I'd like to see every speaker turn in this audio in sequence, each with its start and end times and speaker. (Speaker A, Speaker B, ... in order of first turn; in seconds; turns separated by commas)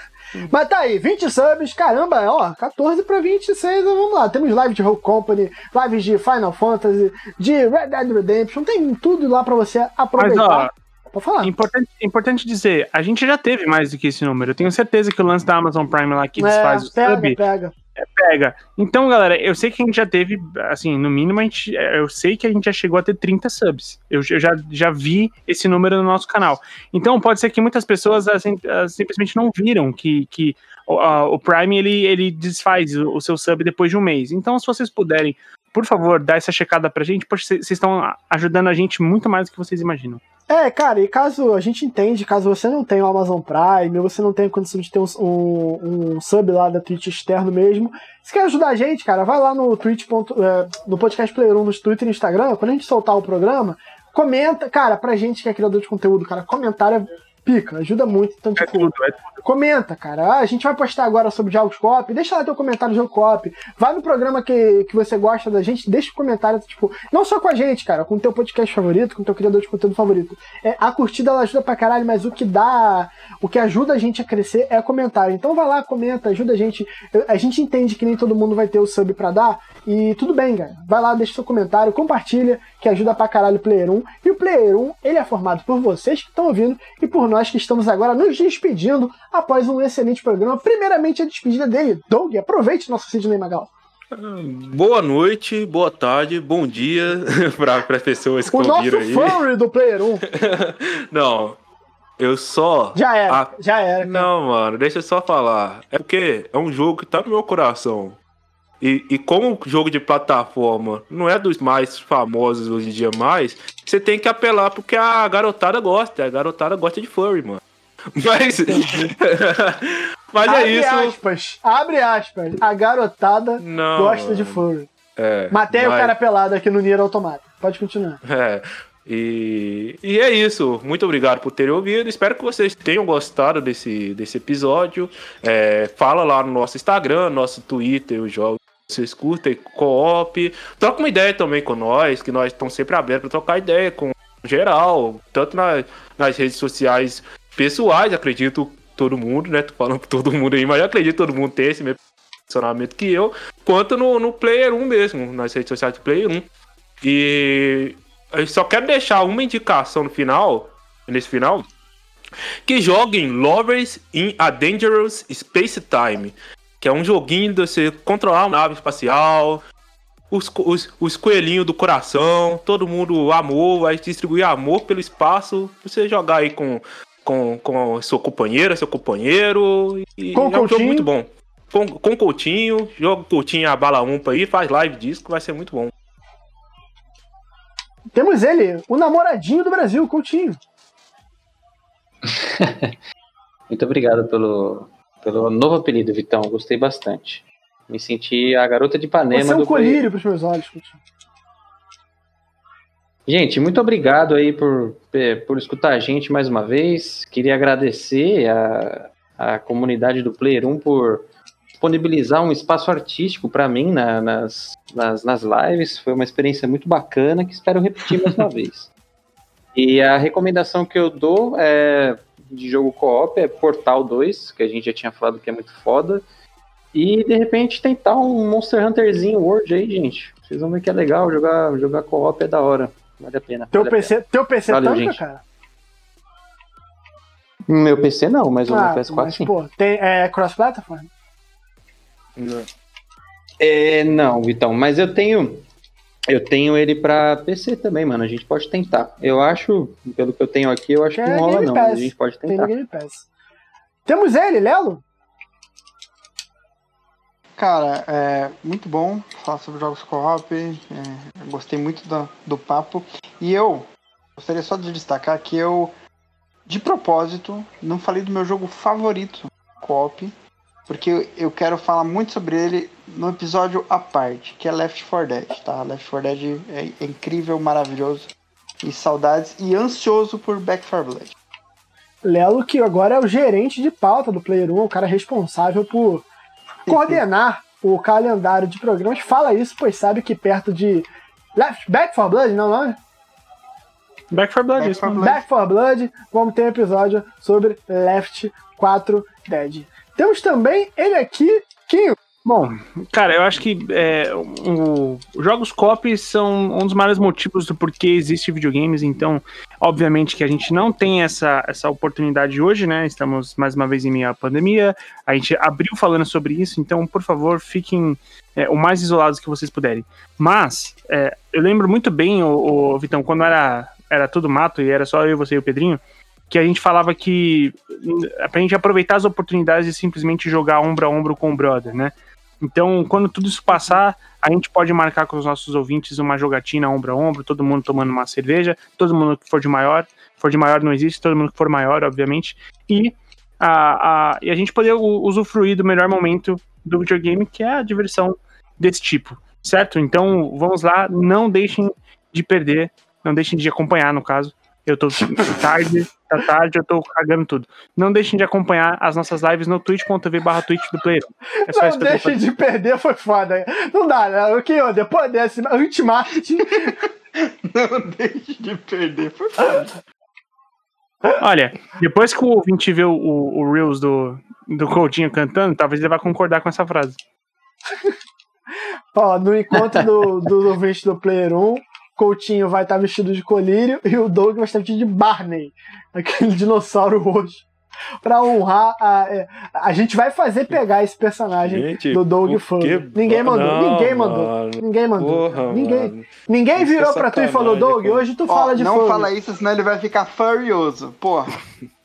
Speaker A: 0.5-11.5, Speaker B: 10.2-10.7, Speaker B: 11.4-17.4, Speaker A: 16.4-17.7, Speaker B: 18.0-40.2, Speaker A: 40.5-58.9, Speaker B: 58.6-59.4, Speaker A: 59.4-93.7, Speaker C: 94.1-99.4, Speaker A: 98.5-100.2, Speaker C: 100.3-101.6, Speaker C: 102.2-103.5, Speaker A: 103.0-104.3, Speaker C: 104.0-108.2, Speaker C: 108.8-117.6, Speaker C: 118.2-121.2, Speaker A: 120.4-124.9, Speaker C: 123.6-124.7, Speaker C: 125.2-126.2, Speaker A: 125.5-128.2, Speaker C: 128.2-152.0, Speaker C: 152.5-156.5, Speaker C: 157.0-161.7, Speaker C: 162.7-169.6, Speaker C: 170.3-185.9, Speaker A: 180.3-181.1, Speaker A: 188.1-190.6, Speaker D: 192.2-193.0, Speaker D: 193.7-200.0, Speaker A: 199.3-201.0, Speaker D: 203.3-218.9, Speaker D: 219.8-226.2, Speaker D: 226.9-234.2, Speaker A: 233.7-235.4, Speaker D: 234.7-235.2, Speaker D: 237.7-239.5, Speaker A: 238.7-241.1, Speaker C: 242.4-242.7, Speaker D: 243.6-245.7, Speaker D: 246.3-252.7, Speaker A: 251.1-253.3, Speaker A: 254.1-255.0, Speaker E: 257.6-265.9, Speaker E: 266.7-270.3, Speaker E: 270.9-278.3, Speaker E: 278.8-281.3, Speaker A: 282.2-286.3, Speaker E: 286.9-287.2, Speaker A: 286.9-293.0, Speaker B: 294.3-295.4, Speaker E: 294.8-295.4, Speaker A: 295.2-302.2, Speaker B: 302.4-362.4, Speaker A: 361.6-367.0, Speaker E: 366.9-369.9, Speaker B: 371.3-377.2, Speaker A: 379.1-387.7, Speaker D: 379.7-380.0, Speaker A: 388.2-399.3, Speaker C: 391.6-398.3, Speaker E: 398.5-401.6